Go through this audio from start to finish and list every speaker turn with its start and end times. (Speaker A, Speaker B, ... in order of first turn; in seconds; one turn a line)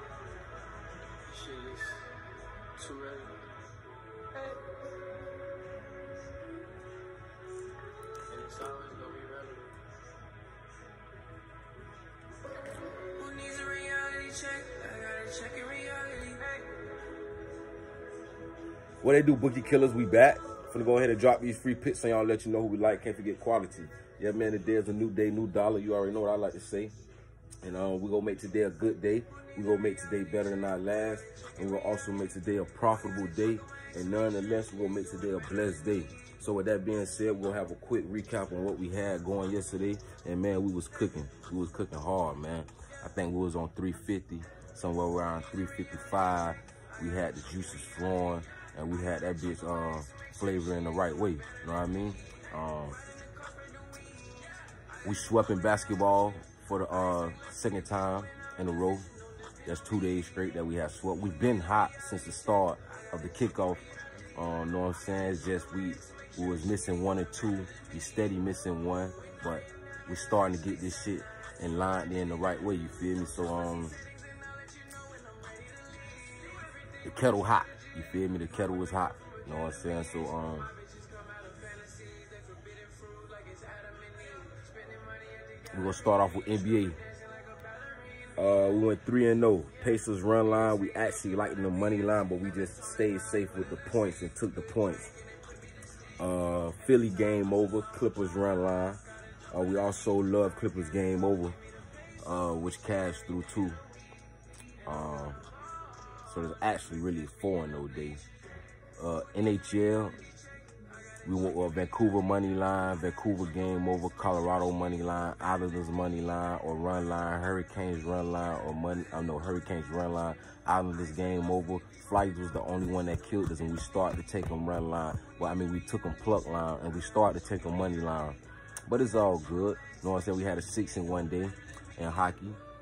Speaker A: 1.3-2.1
Speaker A: 2.8-3.4
Speaker A: 8.3-9.8
Speaker A: 12.7-16.6
Speaker B: 19.0-26.9
Speaker B: 27.6-53.0
Speaker B: 55.0-59.1
Speaker B: 59.6-74.0
Speaker A: 74.3-75.6
Speaker B: 77.0-80.7
Speaker A: 80.8-85.7
Speaker B: 85.7-87.0
Speaker A: 87.3-87.9
Speaker B: 88.3-95.1
Speaker B: 96.2-101.6
Speaker B: 102.2-103.8
Speaker B: 104.8-105.4
Speaker B: 106.2-108.2
Speaker B: 109.0-110.2
Speaker B: 111.2-132.6